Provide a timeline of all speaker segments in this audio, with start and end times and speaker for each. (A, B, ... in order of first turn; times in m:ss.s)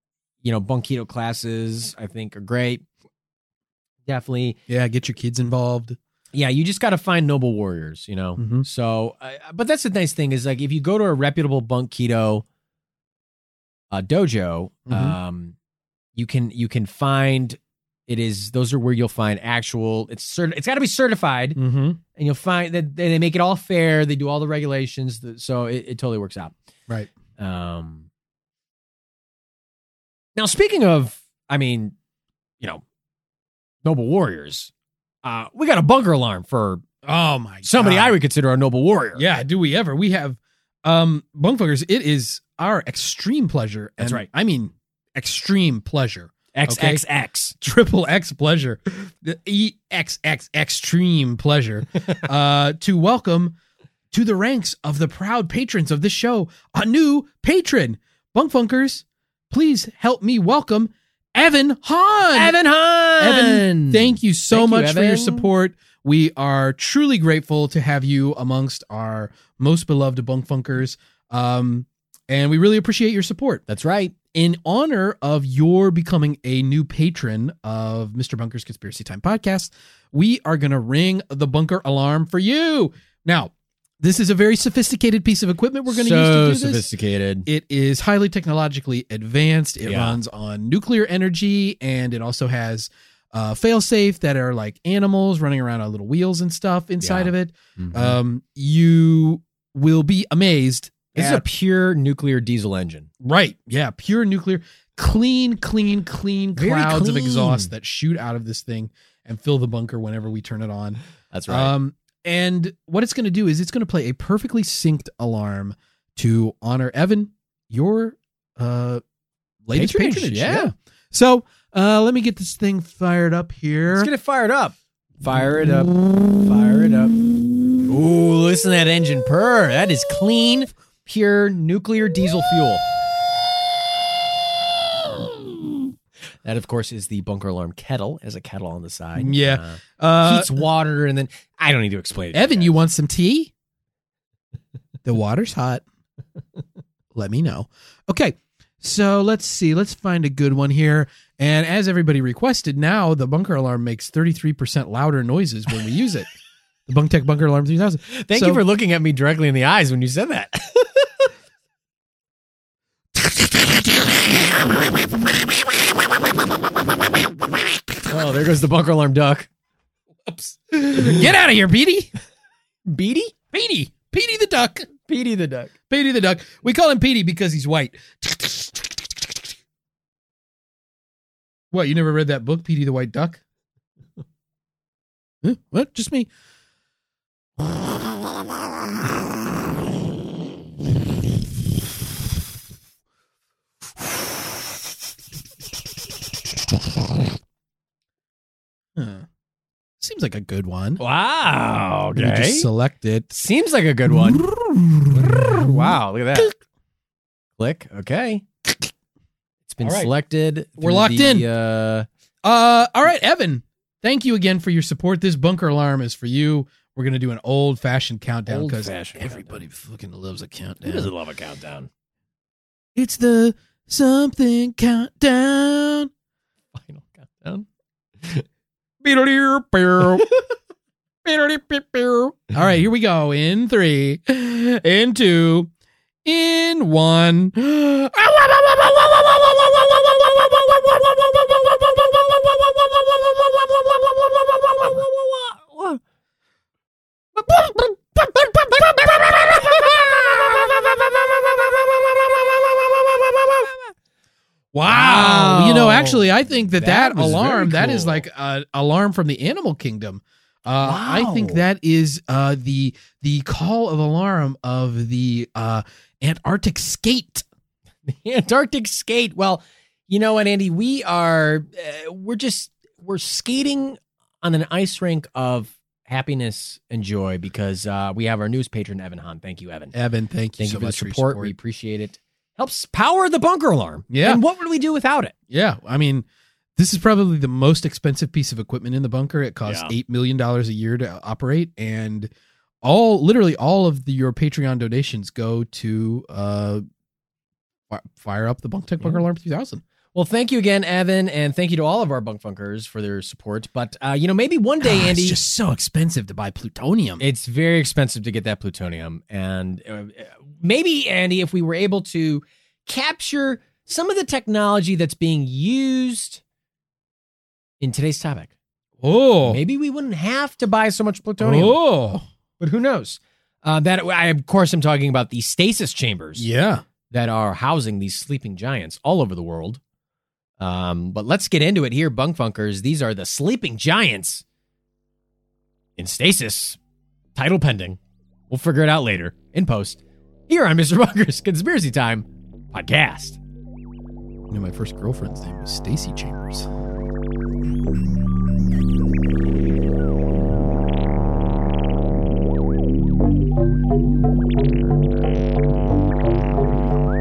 0:00.4-0:02.8 A
0:04.1-0:04.6 A
0:04.7-0:06.0 B
0:06.3-0:12.4 A
0:08.4-0:08.7 B
0:13.9-0:15.6 A
0:14.9-0:15.2 B
0:16.2-0:21.6 A
0:21.6-0:22.0 B
0:22.2-0:26.6 A
0:27.4-0:28.1 A
0:30.4-0:31.9 A
0:33.8-0:34.7 A
0:35.2-0:36.8 A
0:37.0-0:38.2 B
0:37.6-0:39.2 A
0:39.2-0:47.0 B
0:44.0-0:44.3 A
0:46.6-0:47.6 A
0:47.6-0:53.6 B
0:54.1-1:02.6 B
1:02.3-1:05.5 A
1:03.2-1:13.6 B
1:13.7-1:14.2 A
1:14.3-1:26.9 B
1:25.9-1:27.5 A
1:27.5-1:41.4 B
1:29.8-1:30.2 A
1:37.0-1:38.2 A
1:41.1-1:43.1 A
1:43.2-1:59.0 B
1:46.6-1:47.7 A
1:51.3-1:51.7 A
1:59.6-2:04.1 B
1:59.7-2:00.7 A
2:03.9-2:07.2 A
2:07.8-2:12.8 A
2:16.4-2:22.8 A
2:19.2-2:20.6 B
2:22.3-2:23.5 B
2:25.0-2:25.8 B
2:27.1-2:36.3 B
2:36.9-2:38.6 B
2:38.1-2:41.3 A
2:43.2-2:43.9 B
2:48.1-2:49.5 A
2:50.2-2:52.1 B
2:52.9-2:53.4 A
2:53.5-2:54.9 B
2:55.1-2:55.7 A
2:55.9-2:59.5 B
3:01.7-3:03.4 B
3:05.4-3:06.3 B
3:19.0-3:19.3 B
3:20.0-3:21.0 B
3:21.0-3:22.7 A
3:22.2-3:23.4 B
3:23.3-3:24.4 A
3:24.1-3:26.5 B
3:25.1-3:26.5 A
3:27.6-3:28.4 A
3:29.7-3:32.1 A
3:29.8-3:30.1 B
3:30.8-3:31.5 B
3:32.4-3:41.1 B
3:38.5-3:39.6 A
3:40.8-3:41.9 A
3:43.0-3:46.1 B
3:46.7-3:47.7 A
3:49.0-3:50.3 B
3:51.2-3:55.7 B
3:56.2-4:05.4 B
4:05.5-4:06.0 A
4:07.4-4:13.7 B
4:14.7-4:27.4 B
4:14.9-4:18.2 A
4:20.8-4:21.6 A
4:28.1-4:39.9 A
4:39.9-4:41.6 B
4:40.6-4:45.3 A
4:44.1-4:44.4 B
4:45.5-4:46.3 B
4:46.8-4:52.3 B
4:49.6-4:49.9 A
4:52.8-4:56.8 B
4:57.9-4:59.8 B
5:00.1-5:05.4 A
5:04.8-5:07.2 B
5:07.2-5:16.4 A
5:17.8-5:18.5 A
5:19.0-5:19.6 B
5:19.5-5:21.8 A
5:21.4-5:22.2 B
5:22.6-5:26.5 A
5:26.4-5:26.8 B
5:27.1-5:29.8 A
5:30.6-5:34.4 A
5:36.0-5:36.8 A
5:37.4-5:38.0 A
5:38.5-5:43.4 A
5:44.5-5:46.7 B